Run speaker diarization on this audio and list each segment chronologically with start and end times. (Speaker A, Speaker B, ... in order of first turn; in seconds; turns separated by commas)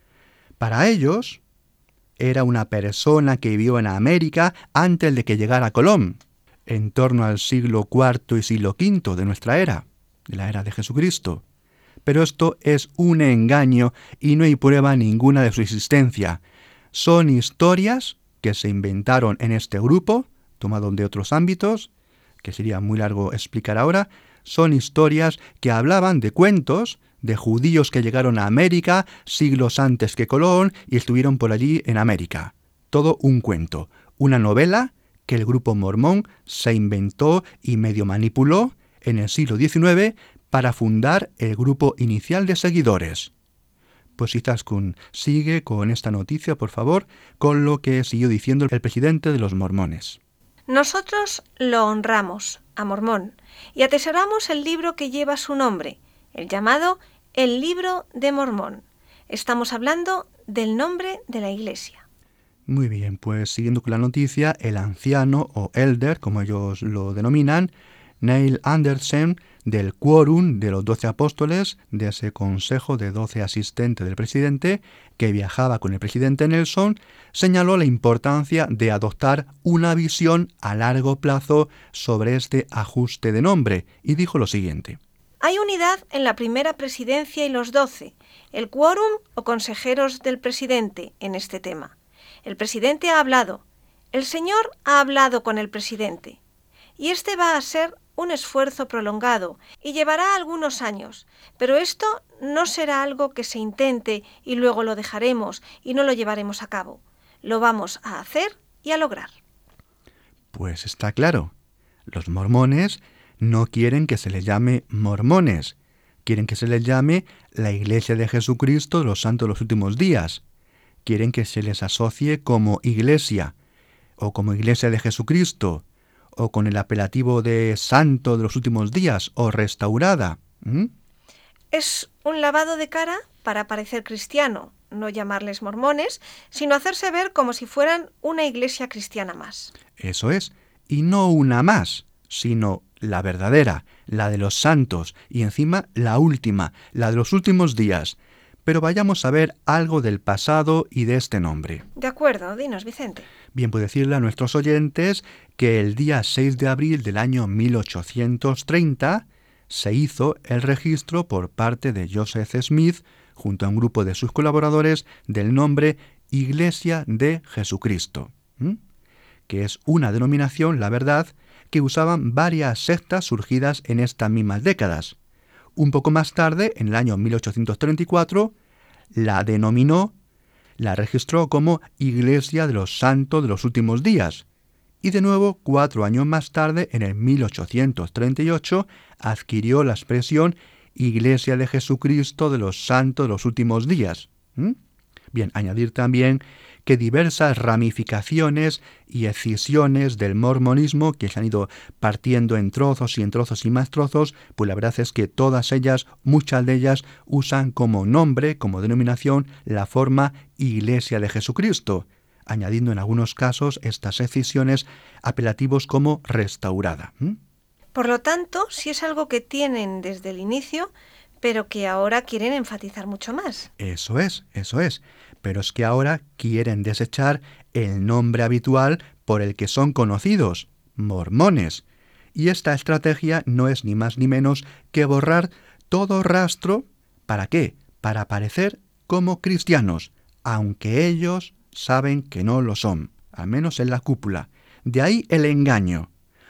Speaker A: 0.6-1.4, Speaker A: 2.2-11.4, Speaker A: 12.0-16.4, Speaker A: 16.9-21.9, Speaker A: 22.4-43.3, Speaker A: 44.2-50.2, Speaker B: 50.7-62.0, Speaker A: 62.7-85.0, Speaker B: 85.4-91.9, Speaker B: 92.4-96.4, Speaker B: 97.0-109.3, Speaker A: 110.5-111.5, Speaker A: 112.1-120.4, Speaker A: 121.0-123.5, Speaker A: 124.2-125.8, Speaker A: 126.3-130.9, Speaker B: 131.7-139.7, Speaker A: 140.0-151.8, Speaker B: 151.9-153.3, Speaker A: 153.5-168.8, Speaker A: 169.5-175.2, Speaker A: 175.8-178.5, Speaker A: 179.1-180.1, Speaker A: 180.8-184.4, Speaker A: 185.0-194.8, Speaker A: 195.3-217.4, Speaker B: 217.9-220.9, Speaker B: 221.4-223.7, Speaker A: 223.8-231.8, Speaker A: 232.3-246.1